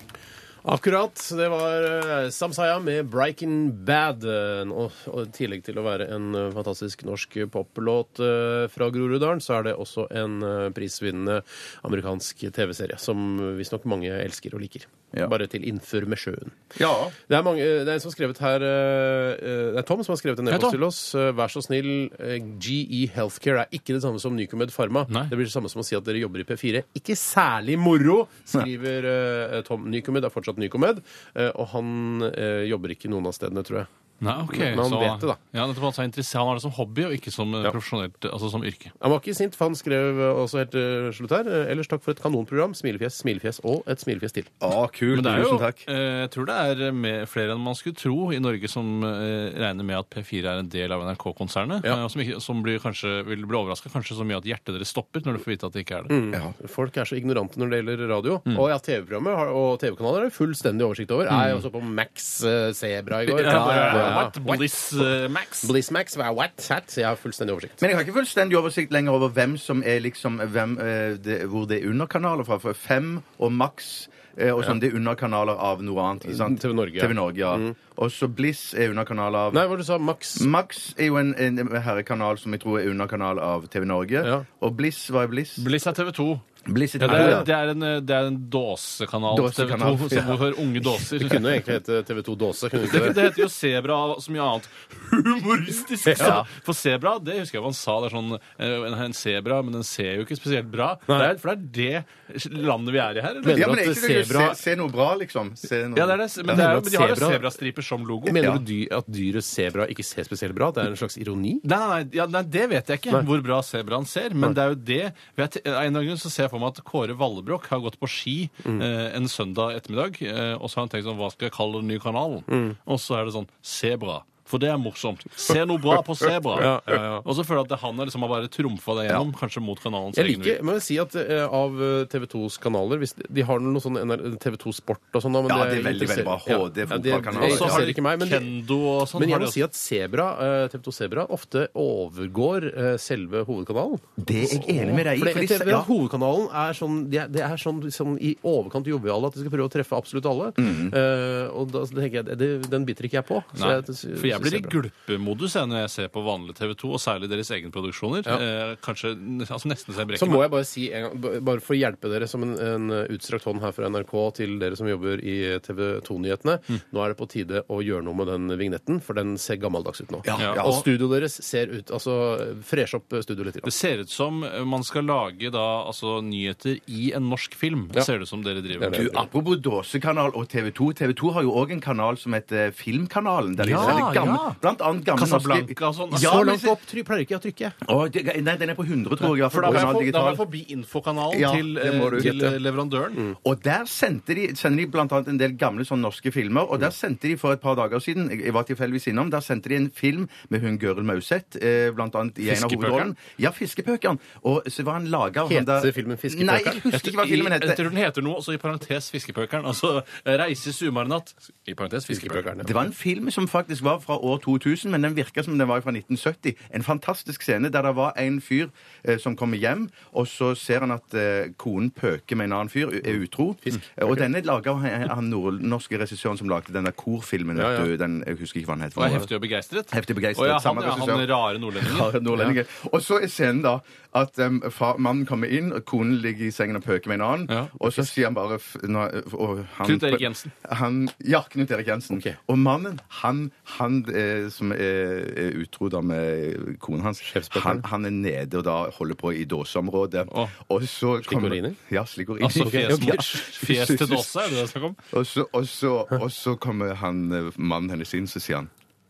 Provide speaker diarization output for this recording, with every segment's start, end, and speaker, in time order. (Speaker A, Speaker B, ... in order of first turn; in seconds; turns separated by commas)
Speaker A: 0.7-16.6, Speaker B: 16.8-17.1, Speaker A: 17.3-33.9, Speaker C: 20.5-20.8, Speaker C: 34.2-38.9, Speaker A: 34.5-35.4, Speaker A: 39.0-44.5, Speaker B: 44.6-45.8, Speaker C: 45.1-56.1, Speaker A: 56.1-64.6, Speaker C: 61.3-61.6, Speaker C: 63.3-65.7, Speaker B: 63.5-64.0, Speaker A: 65.6-67.8, Speaker B: 67.8-79.6, Speaker A: 76.3-77.8, Speaker A: 79.5-80.5, Speaker B: 80.3-85.7, Speaker C: 85.6-86.4, Speaker B: 86.7-87.5, Speaker C: 87.0-91.5, Speaker A: 87.0-87.5, Speaker B: 89.3-90.6, Speaker A: 91.2-93.4, Speaker C: 92.9-103.7, Speaker A: 96.1-96.4, Speaker B: 96.2-96.5, Speaker A: 103.4-104.6, Speaker B: 103.5-106.7, Speaker C: 105.9-108.5, Speaker A: 106.5-107.5, Speaker A: 108.3-111.7, Speaker C: 111.6-130.6, Speaker A: 122.5-122.8, Speaker A: 126.5-127.3, Speaker A: 130.1-138.5, Speaker B: 135.4-137.9, Speaker C: 137.3-139.6, Speaker A: 139.2-154.8, Speaker B: 144.2-145.9, Speaker B: 150.6-150.9, Speaker C: 153.6-160.5, Speaker A: 160.2-173.7, Speaker B: 170.2-170.8, Speaker C: 170.4-170.7, Speaker C: 173.6-179.2, Speaker A: 178.8-179.3, Speaker B: 178.9-186.8, Speaker C: 183.6-184.6, Speaker A: 183.7-184.1, Speaker C: 185.2-186.3, Speaker A: 186.1-187.8, Speaker B: 187.8-190.4, Speaker C: 189.3-193.2, Speaker A: 189.7-189.9, Speaker B: 191.3-192.4, Speaker A: 192.2-192.6, Speaker B: 193.4-207.8, Speaker C: 202.4-203.1, Speaker A: 205.4-206.8, Speaker C: 206.9-212.4, Speaker A: 212.1-212.8, Speaker B: 212.6-229.3, Speaker A: 227.6-227.9, Speaker C: 228.9-232.2, Speaker B: 229.9-254.3, Speaker C: 237.5-237.7, Speaker C: 239.8-240.5, Speaker A: 242.1-242.4, Speaker A: 247.2-247.8, Speaker A: 251.2-251.8, Speaker C: 252.4-255.0, Speaker A: 252.6-253.4, Speaker B: 255.1-258.7